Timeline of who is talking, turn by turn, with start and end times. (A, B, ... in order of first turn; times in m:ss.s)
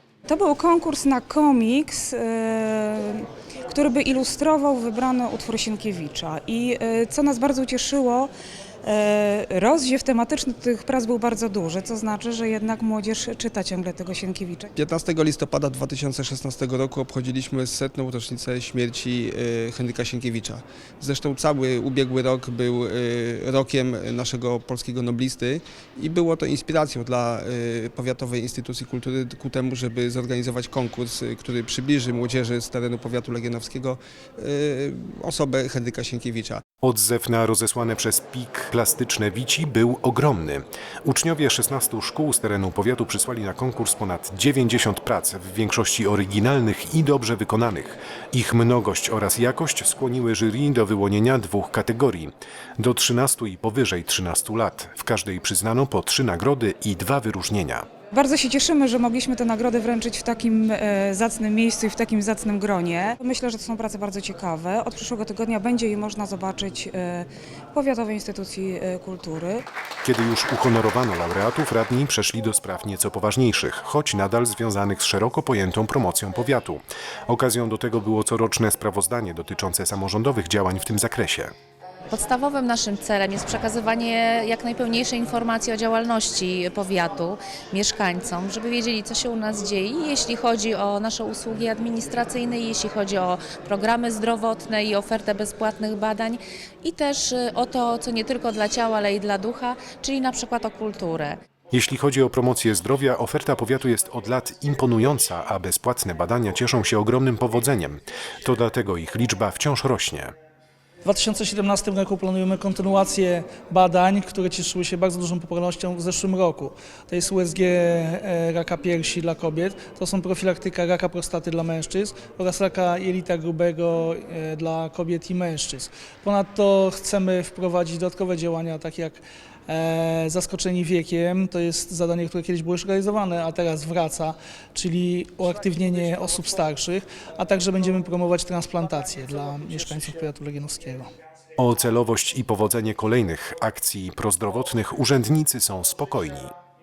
0:00.3-0:08.3 A
0:08.8-0:14.7 A
0:14.7-0:36.6 B
0:36.8-0:57.8 C
0:58.1-1:09.6 A
1:10.0-1:21.5 C
1:22.1-1:41.4 D
1:41.7-1:50.3 C
1:51.0-2:21.1 E
2:21.6-2:26.5 C